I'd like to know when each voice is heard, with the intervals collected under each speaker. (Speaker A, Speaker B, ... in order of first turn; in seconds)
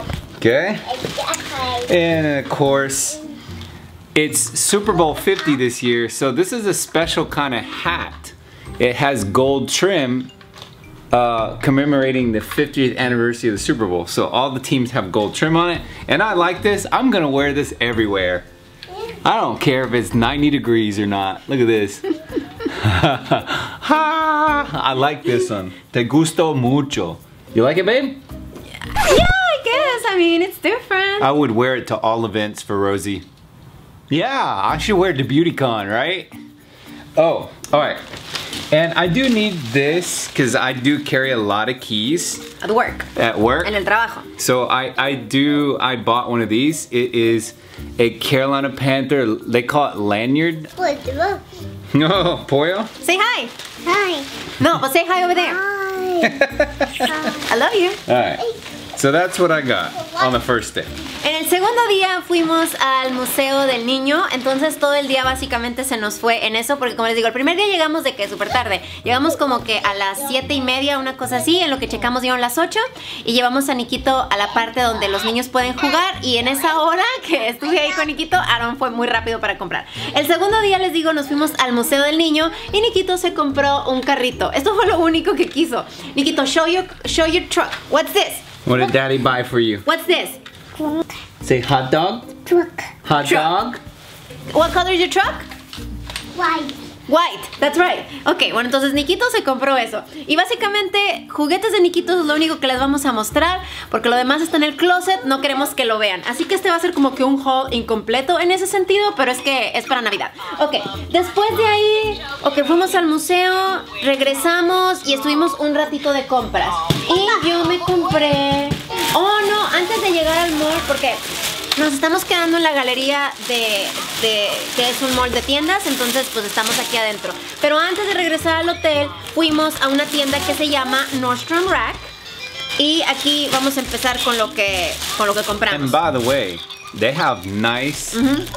Speaker A: 0.4-1.0, 1.7-3.2, 4.1-10.3, 11.1-18.5, 19.2-28.2, 31.2-33.2, 34.1-36.3, 37.1-38.0, 38.7-42.5, 43.1-43.7, 44.4-50.7, 51.9-52.9, 56.2-57.3, 58.1-60.9, 88.6-89.8, 91.4-92.4, 93.0-93.8, 135.7-138.2
Speaker B: 1.0-1.8, 50.8-51.4, 53.9-54.3, 55.6-56.3, 96.3-96.7
Speaker C: 28.9-31.3, 42.6-43.1, 43.6-44.3, 53.0-53.5, 54.6-55.6, 57.3-58.0, 61.2-88.9, 89.8-90.4, 92.5-93.5, 94.5-95.5, 97.1-121.2, 121.8-132.1, 132.8-136.0, 138.1-138.5